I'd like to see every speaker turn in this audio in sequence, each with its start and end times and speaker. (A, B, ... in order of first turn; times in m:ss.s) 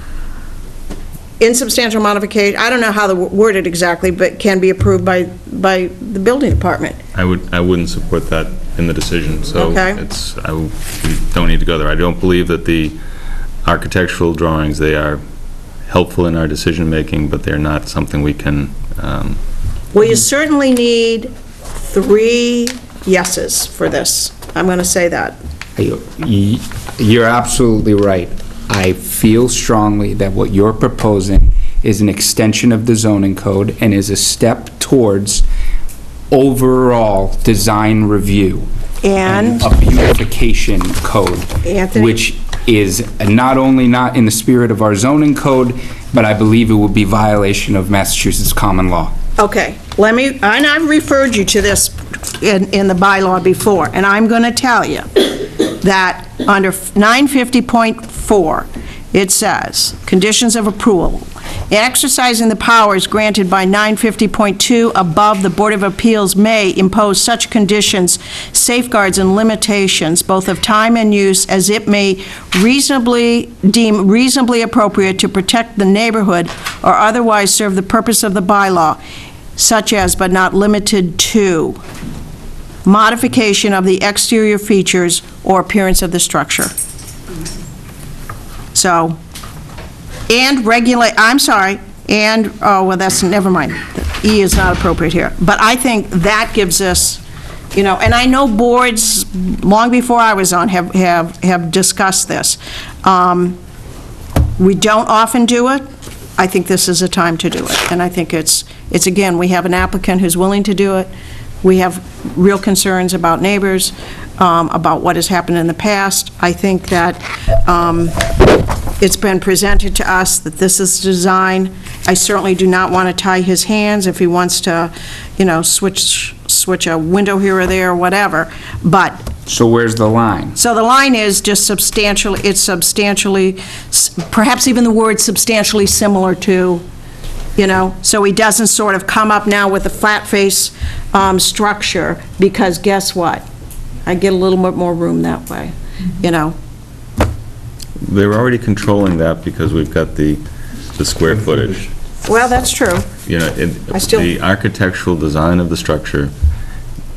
0:01.4-0:07.0 A
0:07.1-0:13.0 B
0:09.6-0:10.0 A
0:13.6-0:15.2 B
0:15.9-0:19.4 B
0:19.9-0:25.4 A
0:25.8-0:35.4 C
0:36.3-0:38.7 C
0:39.0-0:39.7 A
0:39.2-0:49.1 C
0:41.6-0:42.2 A
0:49.4-1:19.0 A
1:19.6-1:21.8 A
1:22.8-1:26.7 A
1:28.7-1:29.2 A
1:30.3-1:37.2 A
1:37.7-1:43.6 A
1:44.6-1:45.8 A
1:46.4-1:51.1 A
1:51.6-1:58.2 A
1:59.0-2:09.2 A
2:09.5-2:10.6 C
2:10.6-2:16.8 A
2:17.6-2:23.4 A
2:24.0-2:26.6 A
2:28.0-2:30.4 B
2:30.9-2:31.9 B
2:32.2-2:33.1 A
2:33.2-2:36.3 B
2:33.9-2:34.3 A